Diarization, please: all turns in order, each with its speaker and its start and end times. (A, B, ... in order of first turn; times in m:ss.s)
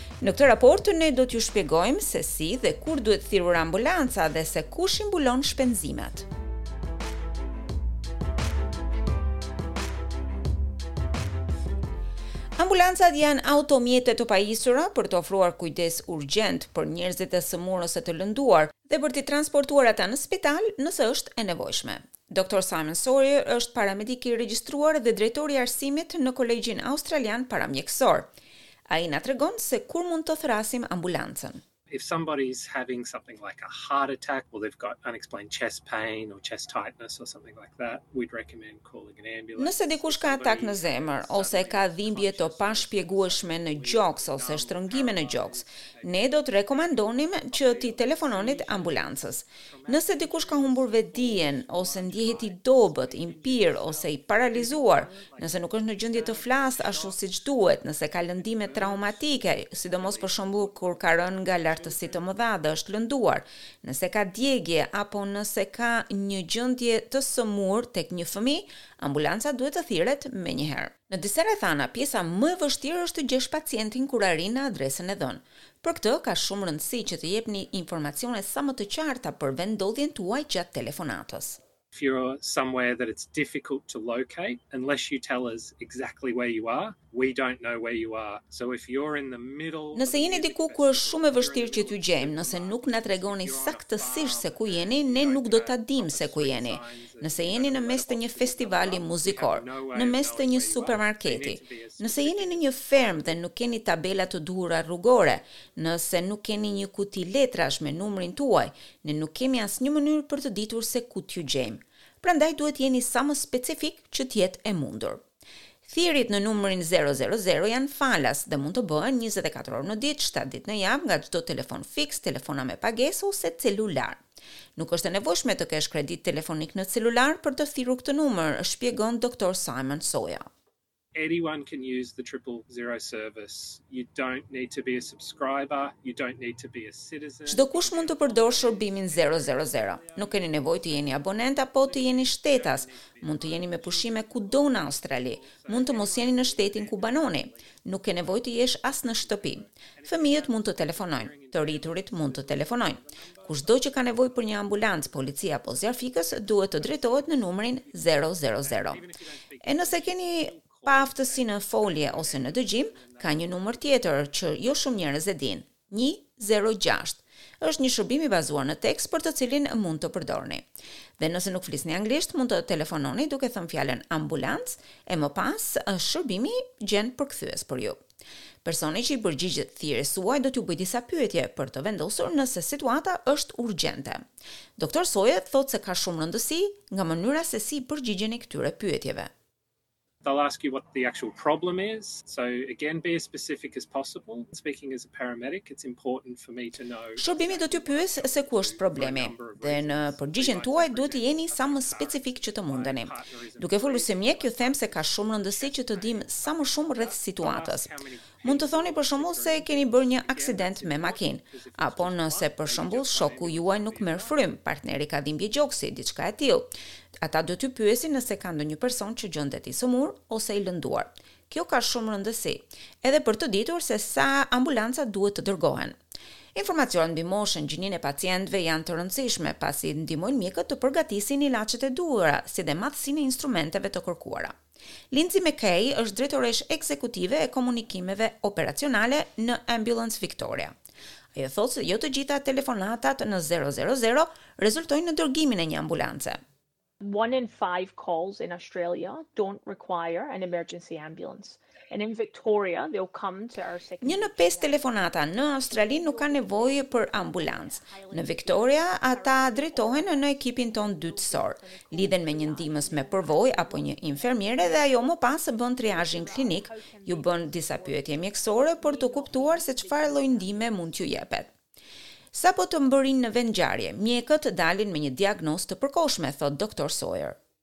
0:00.2-0:06.3 A
0:12.6-0:28.3 A
0:28.9-0:31.6 A
0:31.9-1:02.3 B
0:39.6-1:21.6 A
1:21.9-1:43.4 B
1:29.9-1:55.2 A
1:55.8-2:04.2 A
2:04.8-2:10.5 A
2:11.1-2:35.5 B
2:17.5-2:39.0 A
2:36.2-2:44.8 B
2:39.6-2:50.6 A
2:51.2-2:58.0 A
2:58.6-3:04.2 A
3:04.8-3:09.3 A
3:10.2-3:34.5 B
3:17.2-3:27.9 A
3:28.4-3:36.7 A
3:37.2-3:46.0 A
3:46.6-3:54.6 A
3:55.1-4:00.7 A
4:01.4-4:06.4 A
4:07.0-4:25.2 C
4:14.0-4:31.5 A
4:25.8-4:31.1 C
4:32.3-4:37.4 A